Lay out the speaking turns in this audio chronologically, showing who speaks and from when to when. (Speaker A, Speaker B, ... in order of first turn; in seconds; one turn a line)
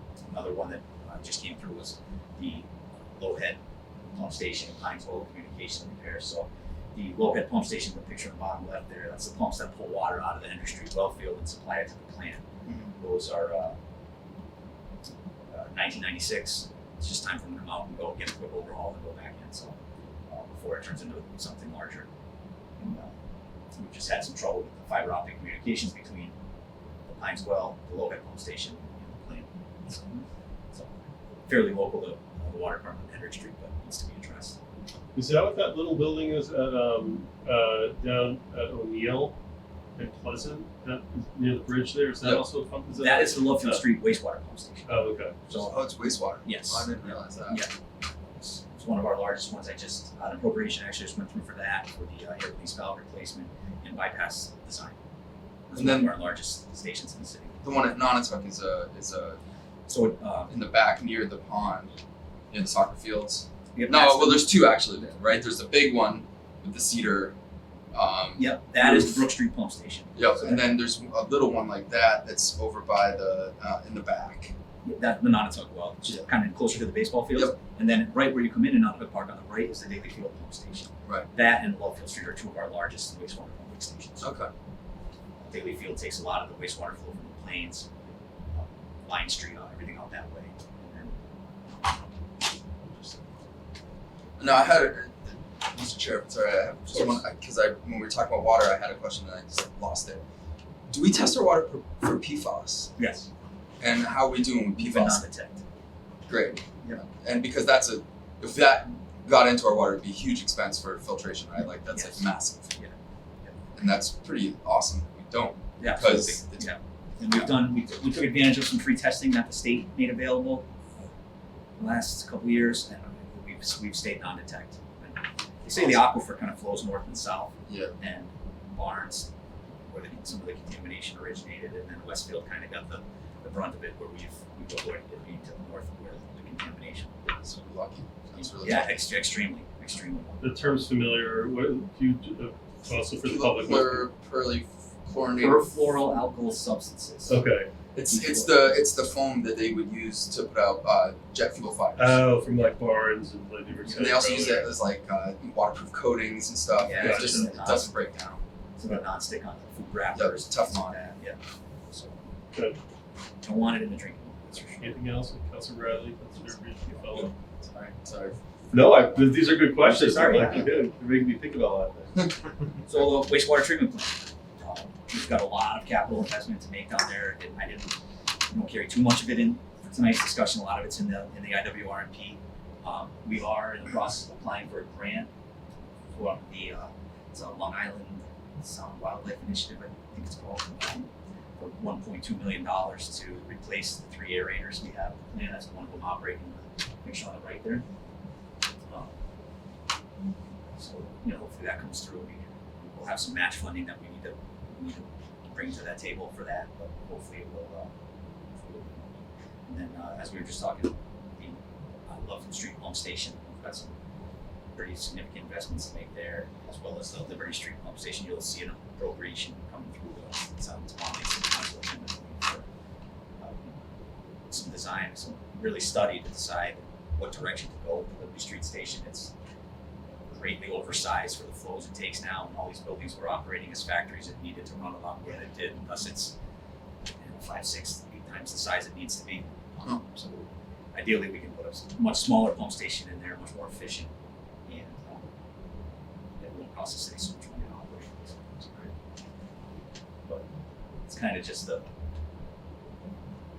Speaker A: 0.3-3.6
Speaker A: 4.2-12.4
Speaker B: 12.7-12.9
Speaker A: 13.0-13.8
Speaker A: 15.5-19.8
Speaker A: 20.3-22.1
Speaker A: 22.8-23.1
Speaker A: 23.8-26.3
Speaker A: 27.1-30.9
Speaker A: 31.5-34.6
Speaker C: 35.1-39.4
Speaker C: 40.0-43.8
Speaker A: 42.9-45.8
Speaker C: 44.9-45.4
Speaker B: 45.5-47.6
Speaker A: 46.4-47.7
Speaker A: 48.4-55.0
Speaker B: 55.7-56.1
Speaker A: 55.7-57.6
Speaker B: 57.6-59.4
Speaker A: 59.9-60.5
Speaker B: 60.5-61.9
Speaker B: 62.5-67.3
Speaker A: 63.8-64.5
Speaker B: 67.9-69.3
Speaker A: 68.4-70.7
Speaker B: 70.2-74.5
Speaker A: 74.8-84.3
Speaker B: 84.2-84.5
Speaker A: 85.4-91.2
Speaker B: 94.4-100.2
Speaker A: 96.9-97.2
Speaker B: 100.9-102.9
Speaker A: 103.0-103.3
Speaker B: 103.8-105.2
Speaker A: 104.8-105.6
Speaker B: 106.3-112.7
Speaker A: 111.9-113.6
Speaker B: 113.8-116.7
Speaker A: 115.8-120.7
Speaker A: 121.8-129.3
Speaker B: 125.7-126.1
Speaker B: 127.7-127.9
Speaker A: 129.9-137.3
Speaker B: 137.4-139.1
Speaker A: 138.4-140.8
Speaker C: 140.4-144.1
Speaker B: 143.1-145.8
Speaker A: 145.4-147.4
Speaker C: 147.3-147.7
Speaker B: 147.9-152.2
Speaker A: 148.1-148.9
Speaker C: 152.0-154.7
Speaker A: 153.9-154.2
Speaker B: 153.9-158.4
Speaker A: 156.8-157.9
Speaker C: 157.0-157.5
Speaker A: 158.8-162.2
Speaker B: 160.1-161.0
Speaker A: 163.4-164.9
Speaker C: 164.8-167.4
Speaker B: 167.2-168.4
Speaker C: 168.7-172.1
Speaker A: 169.8-170.8
Speaker A: 172.9-178.0
Speaker A: 178.5-185.3
Speaker A: 186.1-197.8
Speaker A: 198.9-199.2
Speaker A: 200.8-207.9
Speaker A: 208.6-209.1
Speaker A: 209.7-213.9
Speaker A: 214.8-222.7
Speaker A: 223.4-223.8
Speaker A: 224.5-229.3
Speaker A: 230.3-236.3
Speaker A: 237.2-244.1
Speaker A: 244.7-245.3
Speaker A: 246.4-248.9
Speaker A: 251.1-251.9